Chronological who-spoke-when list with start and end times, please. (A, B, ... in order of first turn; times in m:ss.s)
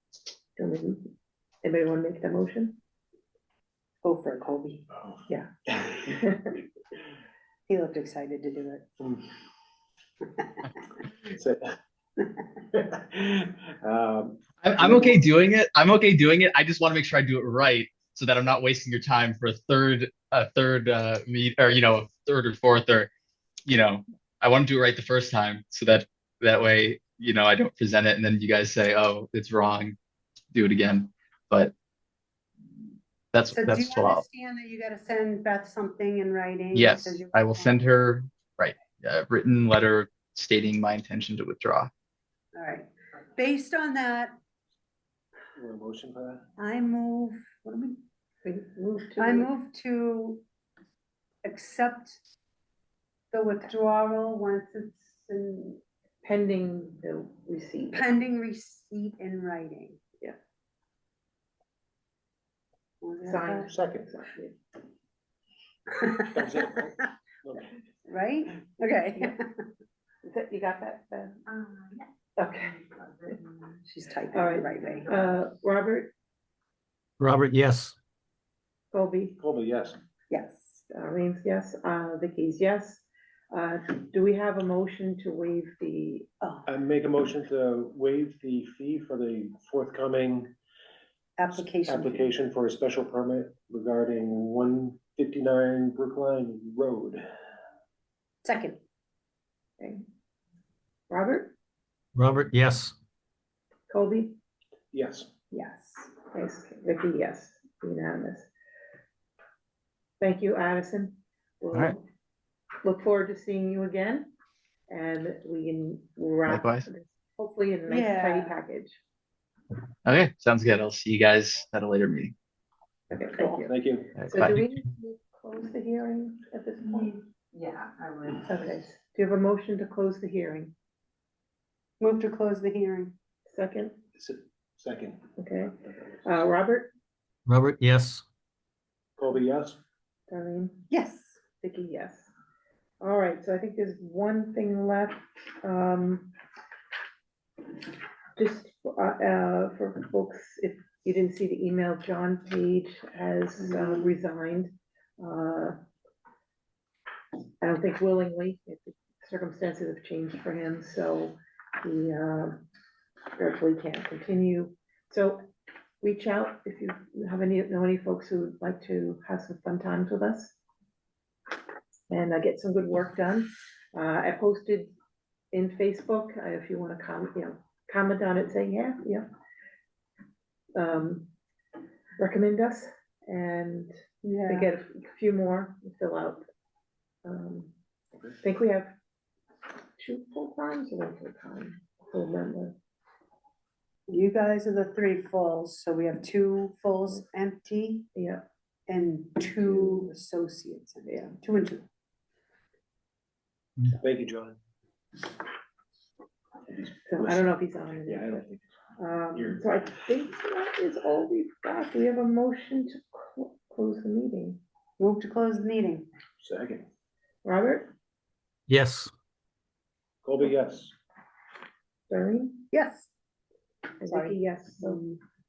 0:00.6-0:01.1 A
0:01.6-0:02.8 A
0:04.0-0:04.9 B
0:05.7-0:06.0 C
0:06.0-0:06.5 A
0:07.7-0:08.9 B
0:09.0-0:09.3 C
0:11.2-0:11.6 C
0:12.7-0:15.2 C
0:14.6-0:23.1 D
0:23.7-0:30.0 D
0:30.5-0:31.7 D
0:33.3-0:34.2 D
0:33.5-0:37.8 B
0:36.8-0:41.9 D
0:42.5-0:44.4 B
0:45.6-0:46.4 C
0:46.6-0:48.0 B
0:48.4-0:49.5 A
0:49.2-0:50.4 B
0:51.4-0:52.2 B
0:53.3-0:55.8 B
0:56.2-0:58.1 A
0:57.9-1:00.0 B
1:03.0-1:03.7 B
1:03.2-1:04.6 A
1:03.7-1:04.1 C
1:06.0-1:06.5 B
1:06.3-1:07.7 C
1:08.1-1:09.6 B
1:10.2-1:11.4 A
1:12.4-1:12.9 A
1:13.8-1:15.2 B
1:14.3-1:16.1 A
1:17.2-1:18.0 E
1:18.9-1:19.4 A
1:19.4-1:20.0 C
1:20.3-1:20.8 B
1:20.9-1:26.3 A
1:26.4-1:26.7 B
1:26.7-1:30.5 C
1:31.4-1:32.3 B
1:31.6-1:37.2 C
1:38.4-1:38.8 B
1:39.8-1:40.0 A
1:41.1-1:41.5 A
1:42.2-1:43.0 E
1:43.9-1:44.4 A
1:44.9-1:45.3 C
1:45.5-1:46.1 B
1:46.3-1:48.5 A
1:50.2-1:52.0 A
1:52.8-1:54.3 A
1:54.9-1:59.0 A
1:56.5-1:56.9 D
1:57.9-1:58.6 B
2:00.1-2:02.3 D
2:03.1-2:07.2 A
2:03.7-2:04.1 C
2:04.2-2:04.6 D
2:07.5-2:08.5 B
2:08.5-2:10.7 A
2:12.0-2:13.1 B
2:13.5-2:14.0 A
2:14.2-2:15.2 C
2:15.4-2:16.9 A
2:17.5-2:18.2 E
2:19.2-2:19.8 C
2:20.3-2:20.9 A
2:20.9-2:21.4 B
2:21.6-2:22.3 A
2:23.0-2:26.3 A
2:28.4-2:35.8 A
2:33.7-2:34.2 B
2:37.6-2:42.6 A
2:43.4-2:45.5 A
2:46.0-2:50.6 A
2:52.1-2:54.9 A
2:55.5-2:59.3 A
3:00.8-3:01.3 A
3:02.2-3:04.0 A
3:04.2-3:04.7 B
3:04.5-3:06.4 A
3:07.2-3:07.7 A
3:08.4-3:08.9 A
3:10.0-3:12.8 A
3:14.1-3:18.1 B
3:18.2-3:18.4 A
3:18.9-3:21.9 B
3:24.0-3:24.6 C
3:27.1-3:28.5 A
3:27.1-3:27.5 C
3:28.0-3:28.6 C
3:29.0-3:34.6 A
3:29.4-3:29.6 C
3:35.0-3:36.1 B
3:36.4-3:36.9 C
3:37.4-3:37.9 A
3:38.7-3:39.1 E
3:40.2-3:40.9 C
3:42.1-3:42.7 A
3:42.7-3:43.1 B
3:44.0-3:45.1 A
3:44.0-3:45.2 B